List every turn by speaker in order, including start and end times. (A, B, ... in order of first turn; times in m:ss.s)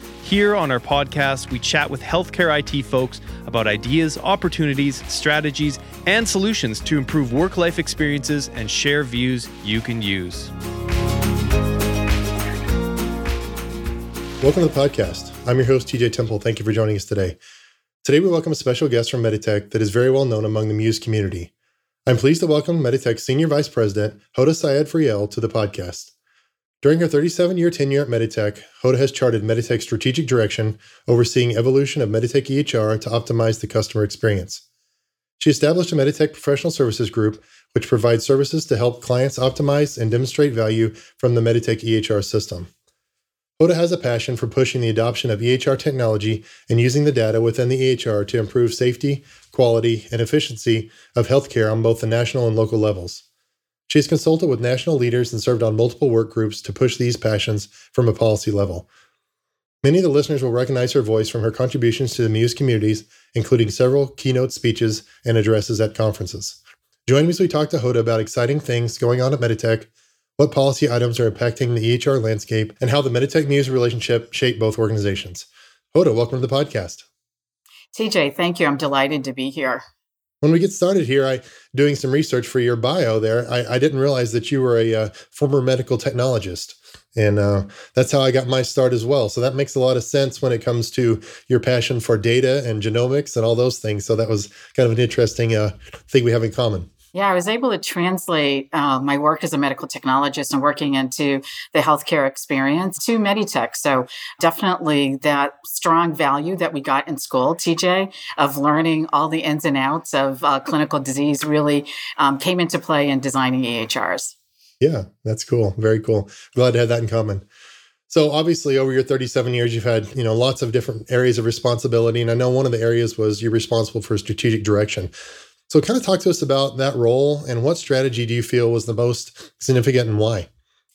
0:00.2-0:10.5 A
0:14.4-0:17.4 B
0:18.0-0:21.5 B
0:22.1-0:26.1 B
0:26.8-0:34.6 B
0:35.4-0:42.7 B
0:43.6-0:53.2 B
0:53.9-0:58.9 B
0:59.8-1:17.0 B
1:17.9-1:19.8 C
1:20.4-1:36.9 B
1:37.1-1:54.4 C
1:54.8-1:57.4 B
1:58.1-2:05.1 B
2:05.7-2:10.5 B